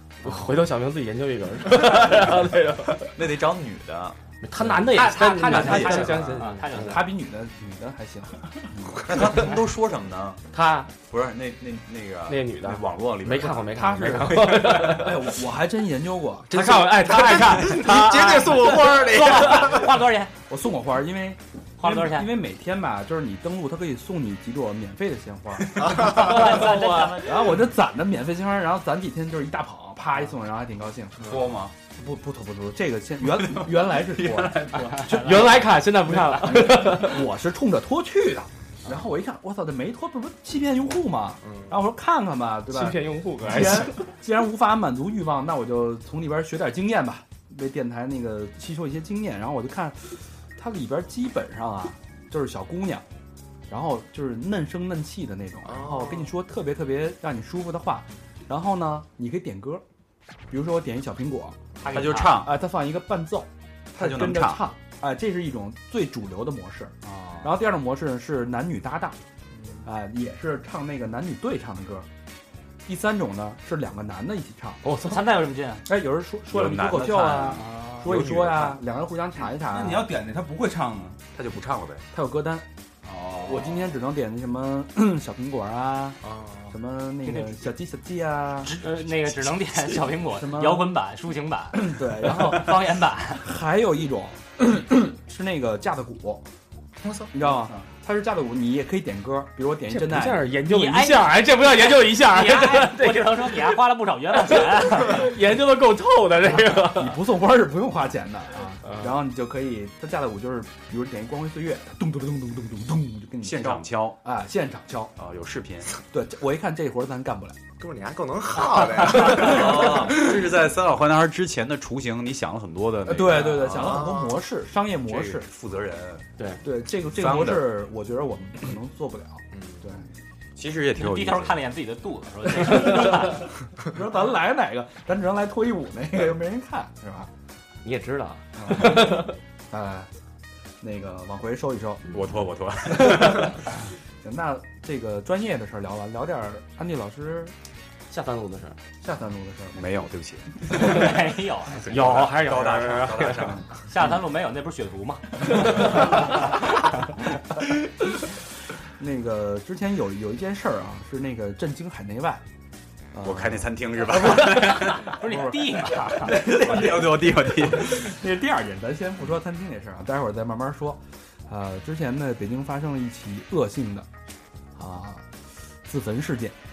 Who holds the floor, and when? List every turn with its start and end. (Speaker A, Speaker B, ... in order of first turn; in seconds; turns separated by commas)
Speaker A: 0.2-3.1, Speaker B: 3.1-4.2, Speaker A: 4.4-7.1, Speaker C: 4.8-7.1, Speaker B: 5.5-6.2, Speaker D: 6.1-9.1, Speaker B: 8.9-10.4, Speaker A: 10.5-10.9, Speaker B: 11.0-15.0, Speaker A: 12.3-15.3, Speaker D: 13.7-16.6, Speaker A: 16.5-19.0, Speaker E: 16.5-19.9, Speaker C: 18.5-20.3, Speaker D: 20.5-26.5, Speaker C: 21.8-22.3, Speaker E: 25.8-26.4, Speaker C: 25.9-27.6, Speaker A: 26.2-27.1, Speaker D: 27.1-31.3, Speaker B: 31.2-31.7, Speaker D: 31.9-35.6, Speaker B: 33.3-35.0, Speaker A: 35.1-37.3, Speaker D: 36.5-53.0, Speaker E: 41.4-41.7, Speaker A: 42.7-44.0, Speaker D: 53.7-59.8, Speaker E: 55.6-56.3, Speaker D: 60.5-61.6, Speaker C: 61.8-62.4, Speaker B: 61.9-62.5, Speaker D: 62.1-69.2, Speaker B: 63.9-64.7, Speaker C: 67.0-67.4, Speaker D: 69.8-72.1, Speaker D: 72.8-74.8, Speaker A: 74.8-75.2, Speaker C: 74.9-75.8, Speaker D: 75.8-80.1, Speaker B: 76.5-78.8, Speaker C: 77.6-78.0, Speaker F: 79.5-81.2, Speaker B: 81.3-82.0, Speaker D: 82.1-82.7, Speaker F: 83.0-83.9, Speaker D: 83.4-86.2, Speaker E: 86.2-86.7, Speaker D: 86.7-88.7, Speaker C: 87.3-87.6, Speaker C: 88.6-93.4, Speaker D: 90.4-90.9, Speaker D: 91.7-92.7, Speaker D: 93.4-96.4, Speaker E: 97.0-97.3, Speaker D: 97.3-100.4, Speaker A: 99.9-103.8, Speaker C: 100.7-105.3, Speaker A: 104.3-107.2, Speaker D: 106.7-115.1, Speaker A: 108.8-109.1, Speaker B: 113.4-114.2, Speaker B: 115.2-115.9, Speaker D: 116.1-117.6, Speaker E: 117.8-120.3, Speaker B: 119.2-124.0, Speaker D: 123.0-125.5, Speaker E: 123.7-124.4, Speaker B: 125.0-126.3, Speaker D: 126.6-130.0, Speaker B: 127.1-127.7, Speaker E: 129.5-129.8, Speaker B: 130.6-131.6, Speaker C: 130.9-133.5, Speaker D: 133.8-137.3, Speaker A: 137.8-139.3, Speaker D: 138.6-140.1, Speaker D: 140.8-142.1, Speaker B: 142.1-143.6, Speaker D: 142.9-143.5, Speaker D: 144.2-147.5, Speaker A: 148.1-148.8, Speaker D: 149.0-149.9, Speaker B: 149.7-151.1, Speaker C: 150.7-152.3, Speaker A: 151.8-153.6, Speaker B: 151.9-153.7, Speaker C: 153.9-156.3, Speaker D: 159.0-162.4, Speaker D: 163.1-163.7, Speaker B: 163.2-165.2, Speaker C: 164.3-166.4, Speaker D: 165.3-165.5, Speaker B: 166.2-168.1, Speaker D: 167.8-174.1, Speaker D: 174.8-175.3, Speaker D: 175.8-176.6